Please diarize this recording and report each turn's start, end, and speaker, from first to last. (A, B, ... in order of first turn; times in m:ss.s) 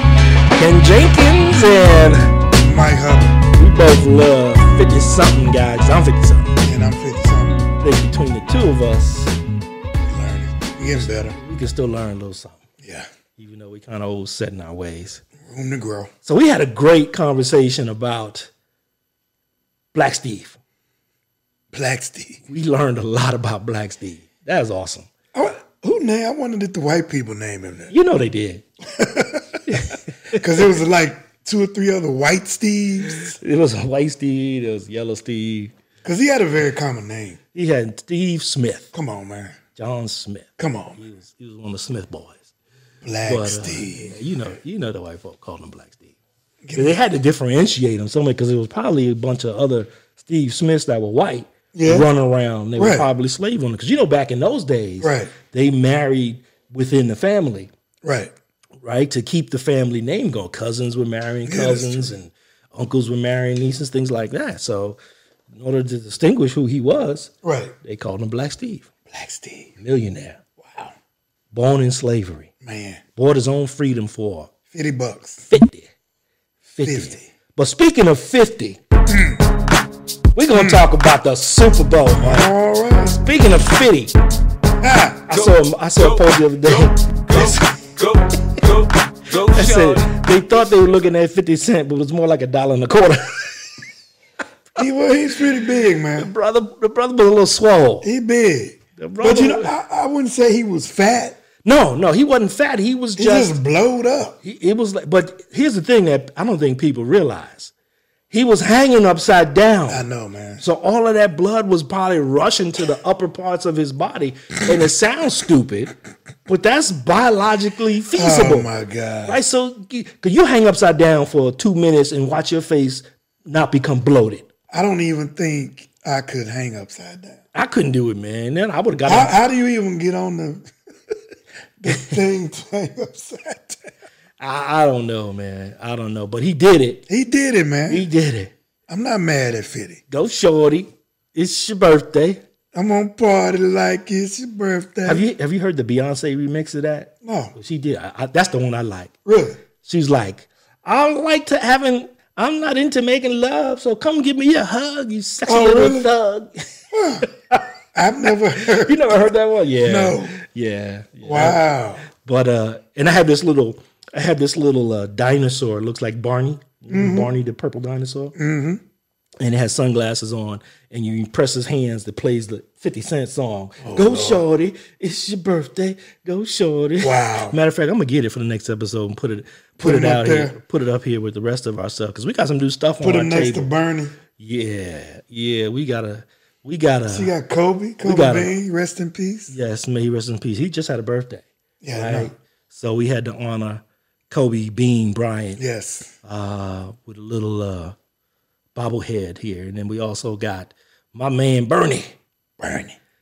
0:00.5-0:02.4 A
0:02.5-0:03.4 B
0:03.5-0:06.6 A
0:06.6-0:07.6 B
0:07.8-0:09.4 A
0:10.0-0:11.4 B
0:10.8-0:12.6 A
0:12.8-0:13.1 B
0:13.4-0:15.2 A
0:15.4-0:16.1 B
0:16.2-0:18.5 A
0:19.9-0:20.6 A
0:21.7-0:22.4 B
0:22.5-0:25.1 A
0:25.3-0:27.9 B
0:27.9-0:28.6 A
0:28.9-0:29.7 B
0:29.7-0:30.5 A
0:30.4-0:33.4 B
0:33.0-0:35.7 A
0:36.0-0:37.4 B
0:37.5-0:38.9 A
0:38.9-0:39.6 B
0:39.8-0:42.5 A
0:40.6-0:41.0 B
0:43.0-0:44.2 B
0:43.2-0:46.2 A
0:46.6-0:47.0 B
0:46.7-0:57.7 A
0:51.7-0:52.1 B
0:52.8-0:53.1 B
0:55.0-0:55.3 B
0:58.0-0:58.3 B
0:58.8-1:05.0 A
1:01.4-1:02.2 B
1:05.5-1:07.3 A
1:07.4-1:07.8 B
1:07.8-1:08.9 A
1:09.1-1:09.7 B
1:09.8-1:10.4 A
1:10.6-1:10.9 B
1:11.5-1:12.5 A
1:12.6-1:13.0 B
1:13.2-1:14.5 A
1:14.7-1:15.5 B
1:15.5-1:15.9 A
1:16.7-1:18.8 A
1:16.8-1:17.3 B
1:19.1-1:19.5 B
1:20.4-1:22.5 A
1:20.5-1:20.8 B
1:22.2-1:23.2 B
1:23.0-1:24.2 A
1:24.8-1:25.3 B
1:25.3-1:27.8 A
1:25.3-1:30.1 C
1:29.4-1:33.6 A
1:34.8-1:36.3 B
1:36.2-1:38.1 A
1:38.0-1:41.4 B
1:39.0-1:39.7 A
1:41.6-1:43.6 A
1:43.2-1:44.4 B
1:44.4-1:47.7 A
1:48.3-1:50.0 A
1:49.9-1:50.6 B
1:50.6-1:55.9 A
1:56.5-1:58.7 A
1:58.1-1:59.4 B
1:59.3-2:04.5 A
2:04.7-2:07.4 B
2:07.5-2:09.3 A
2:09.1-2:10.7 B
2:11.8-2:13.8 B
2:14.4-2:17.0 A
2:17.1-2:18.1 B
2:17.9-2:18.5 A
2:18.9-2:20.0 B
2:20.1-2:22.4 A
2:22.7-2:25.2 B
2:25.0-2:29.1 A
2:27.2-2:27.5 B
2:29.3-2:29.6 B
2:29.8-2:36.7 A
2:35.5-2:36.1 B
2:36.9-2:37.3 B
2:37.9-2:39.3 B
2:38.6-2:41.6 A
2:39.8-2:40.4 B
2:41.2-2:42.0 B
2:42.2-2:48.3 A
2:46.9-2:47.3 B
2:48.4-2:48.8 B
2:49.4-3:03.7 A
2:53.8-2:54.4 B
2:57.0-2:57.6 B
2:59.8-3:00.6 B
3:03.0-3:04.2 B
3:04.4-3:07.3 A
3:07.1-3:09.5 B
3:08.0-3:08.6 A
3:09.5-3:15.6 A
3:11.8-3:12.3 B
3:15.6-3:16.1 B
3:16.2-3:18.0 A
3:18.8-3:22.2 A
3:22.6-3:23.0 B